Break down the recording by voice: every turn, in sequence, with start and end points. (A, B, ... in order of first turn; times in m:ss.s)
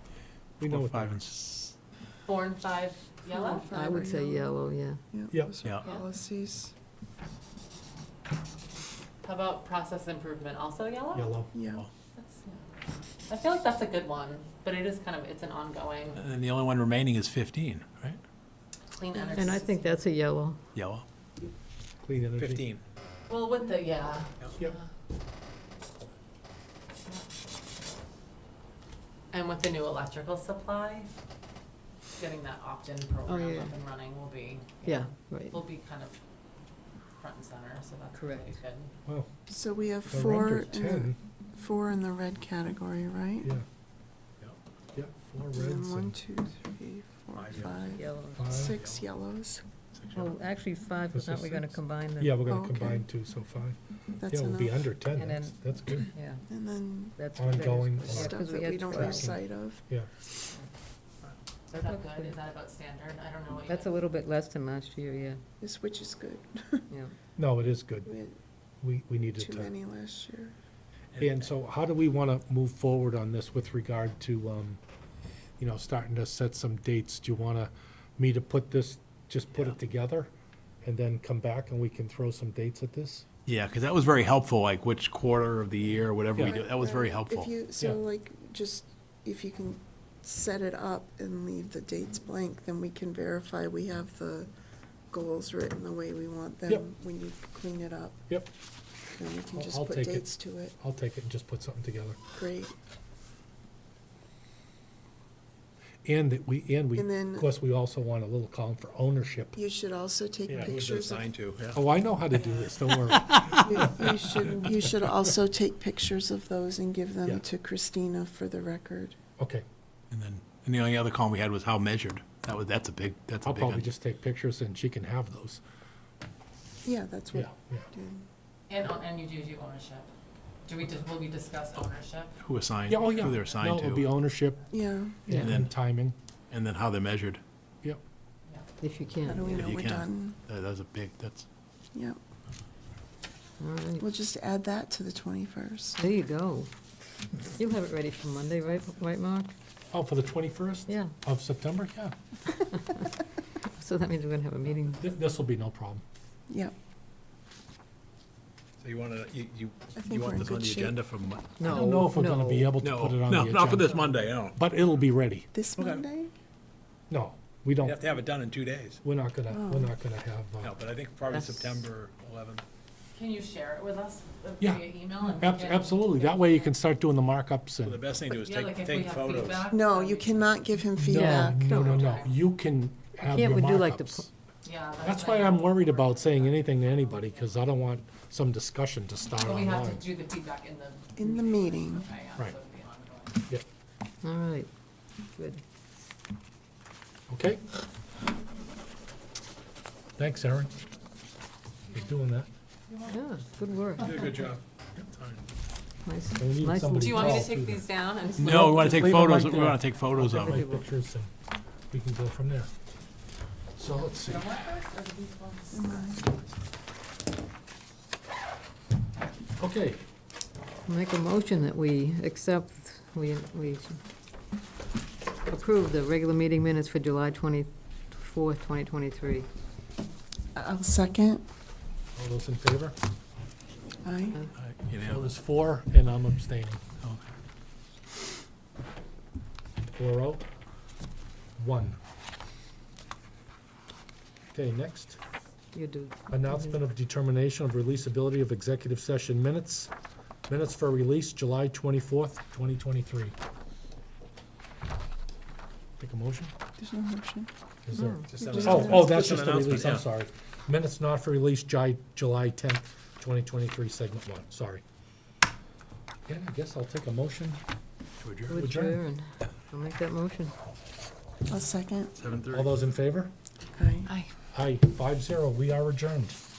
0:00.6-0:01.2 A
0:00.7-0:01.7 B
0:02.2-0:03.7 C
0:03.3-0:05.0 D
0:03.4-0:04.5 E
0:05.1-0:06.7 E
0:05.6-0:05.9 B
0:09.2-0:11.4 C
0:11.1-0:11.5 A
0:11.5-0:11.8 E
0:11.6-0:11.9 B
0:12.1-0:12.6 C
0:13.2-0:16.2 C
0:16.1-0:18.2 B
0:18.9-0:20.0 C
0:19.3-0:20.6 D
0:20.7-0:21.0 B
0:22.0-0:22.6 A
0:22.4-0:22.8 B
0:23.3-0:24.9 C
0:29.3-0:31.1 C
0:32.1-0:36.2 C
0:33.2-0:33.7 D
0:34.8-0:35.6 D
0:37.2-0:38.9 C
0:38.1-0:38.6 D
0:39.5-0:43.5 E
0:40.1-0:41.2 A
0:44.9-0:46.1 A
0:45.5-0:49.6 E
0:47.3-0:48.0 B
0:48.0-0:48.4 D
0:48.4-0:48.8 A
0:48.7-0:49.0 B
0:49.9-0:50.4 B
0:50.1-0:52.5 D
0:51.1-0:56.1 A
0:52.4-0:53.0 E
0:54.2-0:54.9 E
0:55.1-0:56.4 D
0:56.5-0:59.8 E
0:57.2-0:59.3 D
0:57.4-1:00.1 A
1:01.7-1:04.0 C
1:01.8-1:02.4 D
1:03.7-1:05.4 D
1:05.6-1:06.8 E
1:06.9-1:07.1 D
1:07.4-1:08.1 A
1:08.0-1:08.3 E
1:08.8-1:09.7 A
1:09.4-1:10.5 E
1:11.2-1:14.8 A
1:15.6-1:20.3 A
1:20.8-1:23.2 A
1:23.4-1:27.5 B
1:26.3-1:26.6 A
1:26.4-1:34.5 E
1:35.1-1:38.2 E
1:39.1-1:40.7 E
1:39.5-1:40.3 A
1:40.8-1:42.2 A
1:42.3-1:42.7 E
1:46.0-1:49.6 A
1:46.9-1:47.5 E
1:49.6-1:51.3 E
1:50.5-1:50.8 A
1:50.6-1:51.8 B
1:51.7-1:54.6 A
1:52.4-1:52.7 C
1:53.6-1:59.2 E
1:59.4-1:59.6 A
2:00.1-2:03.9 B
2:03.4-2:05.6 A
2:06.8-2:08.2 E
2:07.3-2:07.9 A
2:08.7-2:10.1 C
2:10.6-2:12.3 C
2:12.4-2:14.1 B
2:12.9-2:16.1 A
2:14.7-2:15.3 E
2:15.3-2:15.8 B
2:16.5-2:17.4 B
2:18.8-2:19.6 D
2:19.2-2:20.4 E
2:19.5-2:21.4 B
2:21.9-2:22.2 E
2:23.6-2:24.0 D
2:24.0-2:26.1 E
2:26.0-2:26.7 D
2:27.5-2:29.5 D
2:29.9-2:32.1 A
2:30.9-2:31.1 D
2:32.7-2:33.0 D
2:33.6-2:35.0 D
2:35.0-2:36.0 A
2:36.5-2:36.7 E
2:38.8-2:41.8 B
2:39.9-2:41.0 E
2:41.6-2:42.7 D
2:41.6-2:45.5 A
2:42.8-2:44.6 B
2:45.5-2:46.3 E
2:45.8-2:46.1 B
2:47.1-2:48.1 A
2:47.8-2:49.0 B
2:49.0-2:50.8 A
2:49.5-2:49.9 E
2:50.6-2:52.6 B
2:51.3-2:51.8 D
2:53.1-2:56.7 C
2:54.6-2:58.0 A
2:57.8-2:59.7 B
2:58.2-3:00.6 C
2:59.7-3:01.7 E
3:01.0-3:04.3 A
3:01.0-3:02.1 D
3:01.8-3:02.3 C
3:03.2-3:04.2 D
3:04.6-3:07.6 C
3:05.0-3:10.1 A
3:09.4-3:13.4 C
3:11.2-3:12.1 E
3:14.2-3:14.7 D
3:15.4-3:15.6 D
3:17.3-3:17.6 A
3:20.2-3:20.7 A
3:21.9-3:22.5 A
3:22.9-3:23.2 C
3:23.1-3:24.3 D
3:24.0-3:25.4 B
3:24.0-3:24.3 C
3:26.0-3:27.4 D
3:26.4-3:27.8 A
3:27.0-3:29.3 C
3:28.4-3:31.3 A
3:28.4-3:30.7 B
3:30.1-3:30.8 D
3:31.9-3:32.7 A
3:33.8-3:34.5 A
3:34.0-3:36.2 C
3:35.7-3:36.2 E
3:39.6-3:40.0 A
3:40.8-3:44.0 D
3:45.4-3:49.5 D
3:50.5-3:51.4 E
3:52.1-3:53.0 A
3:54.0-3:54.5 E
3:54.5-3:55.3 B
3:55.0-3:56.8 A
3:57.0-3:57.3 B
3:59.9-4:00.4 A
4:01.6-4:02.0 A
4:04.5-4:05.2 A
4:05.7-4:06.7 D
4:06.3-4:09.9 A
4:10.5-4:13.3 A
4:16.0-4:16.5 A
4:16.8-4:17.5 E
4:17.8-4:24.8 A
4:17.9-4:18.2 D
4:18.3-4:20.1 B
4:18.4-4:19.2 E
4:26.3-4:27.6 A
4:28.2-4:28.6 B
4:28.5-4:30.5 D
4:28.5-4:29.0 A
4:31.5-4:32.1 E
4:32.1-4:32.8 B
4:32.5-4:33.3 A
4:33.7-4:34.1 E
4:34.0-4:34.3 C
4:34.5-4:36.4 A